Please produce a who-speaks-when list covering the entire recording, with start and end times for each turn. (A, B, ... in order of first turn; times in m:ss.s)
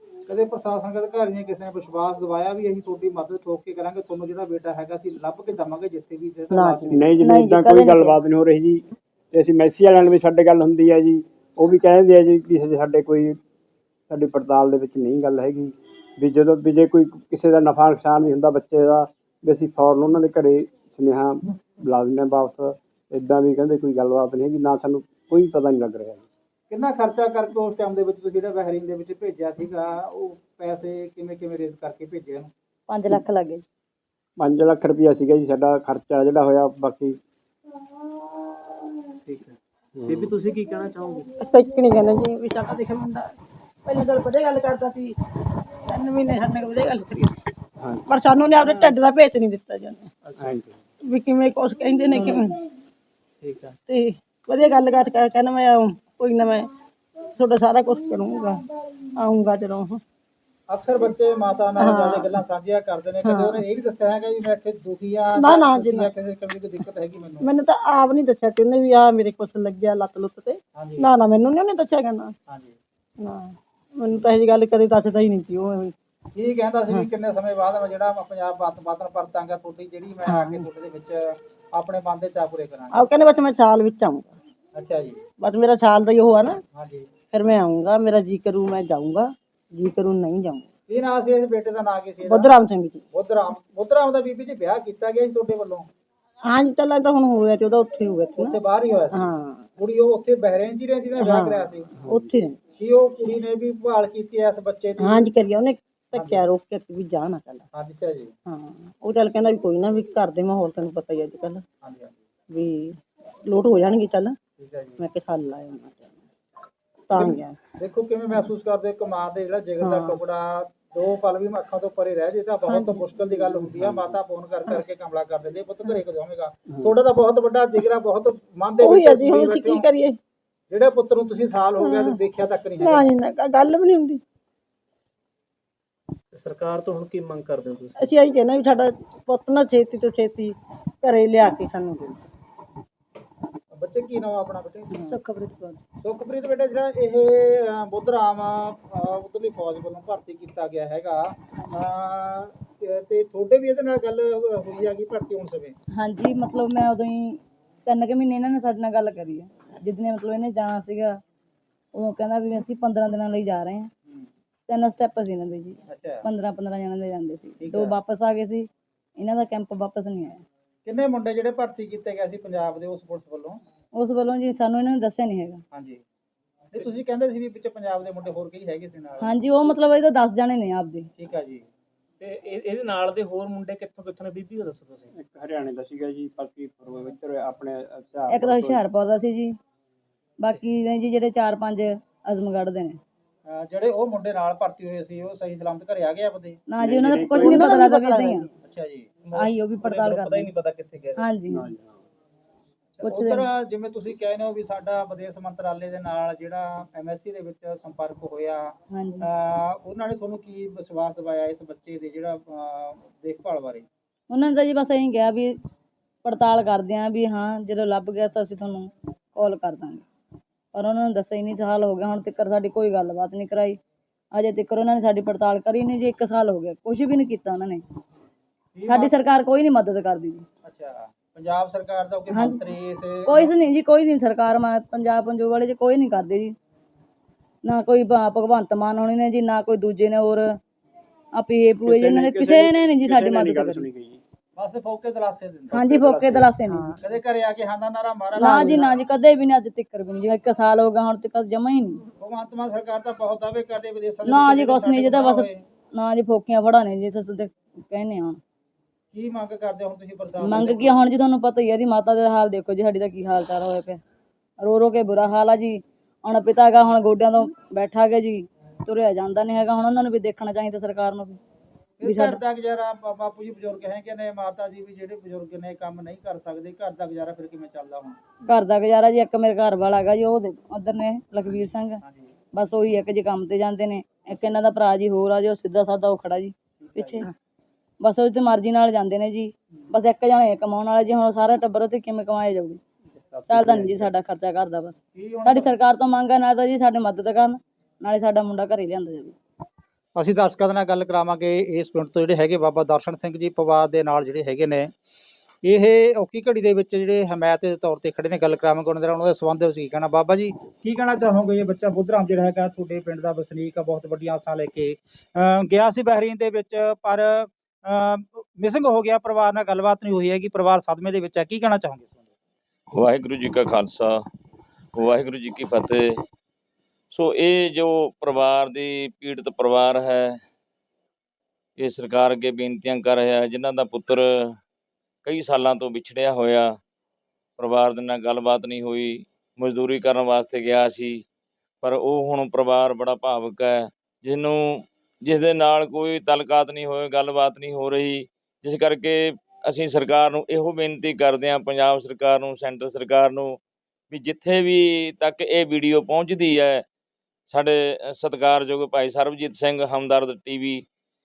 0:00.3-0:07.1 A
0:06.5-0:07.1 B
0:06.9-0:13.4 C
0:07.2-0:08.2 D
0:14.1-0:26.2 C
0:26.7-0:32.5 A
0:32.9-0:33.6 D
0:34.4-0:37.2 C
0:39.2-0:39.6 E
0:40.0-0:40.3 C
0:40.1-0:41.2 E
0:41.4-0:43.3 B
0:43.8-0:45.2 B
0:45.8-0:47.4 B
0:47.8-0:48.0 C
0:48.1-0:50.1 B
0:50.4-0:50.8 C
0:51.0-0:52.6 B
0:53.4-0:53.8 E
0:53.9-0:56.7 B
0:57.3-1:00.0 B
1:00.7-1:07.5 A
1:01.8-1:02.4 B
1:03.2-1:03.6 B
1:05.3-1:06.1 B
1:07.4-1:12.3 B
1:10.8-1:11.1 A
1:12.5-1:12.8 A
1:13.2-1:15.9 B
1:16.3-1:23.0 A
1:20.2-1:20.7 B
1:22.9-1:24.3 B
1:24.7-1:25.2 A
1:25.4-1:26.6 B
1:26.7-1:27.1 A
1:27.3-1:30.7 B
1:30.9-1:32.6 A
1:32.2-1:33.0 B
1:33.1-1:35.9 A
1:36.4-1:38.6 B
1:38.4-1:41.9 A
1:39.1-1:39.7 B
1:41.2-1:42.6 B
1:42.8-1:45.2 A
1:45.0-1:47.6 B
1:46.1-1:46.4 A
1:47.7-1:48.3 A
1:48.4-1:51.6 B
1:51.8-1:52.2 A
1:52.5-1:54.4 B
1:54.6-1:55.0 A
1:55.0-1:56.2 B
1:57.1-1:57.6 B
1:57.1-2:09.8 A
1:59.8-2:00.2 B
2:02.7-2:03.6 B
2:03.8-2:04.1 C
2:08.8-2:10.2 B
2:10.7-2:13.1 A
2:11.8-2:12.2 B
2:12.8-2:14.2 B
2:16.3-2:17.9 E
2:17.9-2:22.2 B
2:23.7-2:25.1 A
2:24.9-2:25.2 B
2:26.0-2:35.7 A
2:35.9-2:41.2 D
2:41.9-2:43.9 D
2:44.7-2:50.4 D
2:45.9-2:46.2 A
2:47.6-2:47.9 A
2:50.8-2:53.6 A
2:53.9-2:55.6 D
2:55.7-2:56.0 A
2:56.7-2:59.3 A
2:59.2-3:01.1 D
3:01.2-3:01.6 A
3:02.2-3:05.1 E
3:05.2-3:08.8 C
3:08.3-3:09.6 D
3:10.4-3:13.0 D
3:13.5-3:16.6 A
3:16.7-3:18.5 D
3:16.8-3:17.5 C
3:17.3-3:18.4 B
3:18.6-3:19.1 A
3:19.3-3:20.5 D
3:19.8-3:21.2 E
3:21.2-3:21.7 D
3:21.5-3:21.9 C
3:23.0-3:33.9 A
3:23.1-3:23.4 B
3:28.9-3:29.3 D
3:34.3-3:35.6 D
3:36.2-3:40.0 D
3:40.7-3:43.8 D
3:44.3-3:47.8 D
3:48.7-3:49.1 A
3:48.8-3:50.4 D
3:50.6-3:53.5 A
3:52.3-3:52.6 D
3:53.3-3:56.5 D
3:57.6-4:00.6 D
4:01.3-4:03.9 D
4:01.8-4:04.2 C
4:04.6-4:06.5 A
4:05.7-4:07.0 D
4:06.7-4:07.0 B
4:07.0-4:08.9 A
4:08.4-4:12.0 D
4:08.4-4:08.8 B
4:12.2-4:15.6 A
4:14.2-4:18.4 D
4:19.1-4:21.0 A
4:20.4-4:24.0 D
4:24.6-4:31.4 D
4:32.0-4:38.2 A
4:32.0-4:32.4 D
4:38.5-4:42.0 D
4:42.0-4:42.3 A
4:42.5-4:47.3 D
4:46.8-4:47.2 A
4:48.0-4:52.8 D
4:53.2-4:54.1 C
4:53.5-4:59.4 D
4:55.1-4:55.7 A
5:00.2-5:04.9 A
5:05.6-5:22.2 A
5:22.9-5:24.1 F
5:25.0-5:26.1 F
5:27.1-5:30.4 F
5:31.8-5:34.5 F
5:35.2-5:36.8 F
5:37.6-5:41.2 F
5:41.8-5:53.6 F
5:54.1-5:56.8 F
5:57.5-6:00.8 F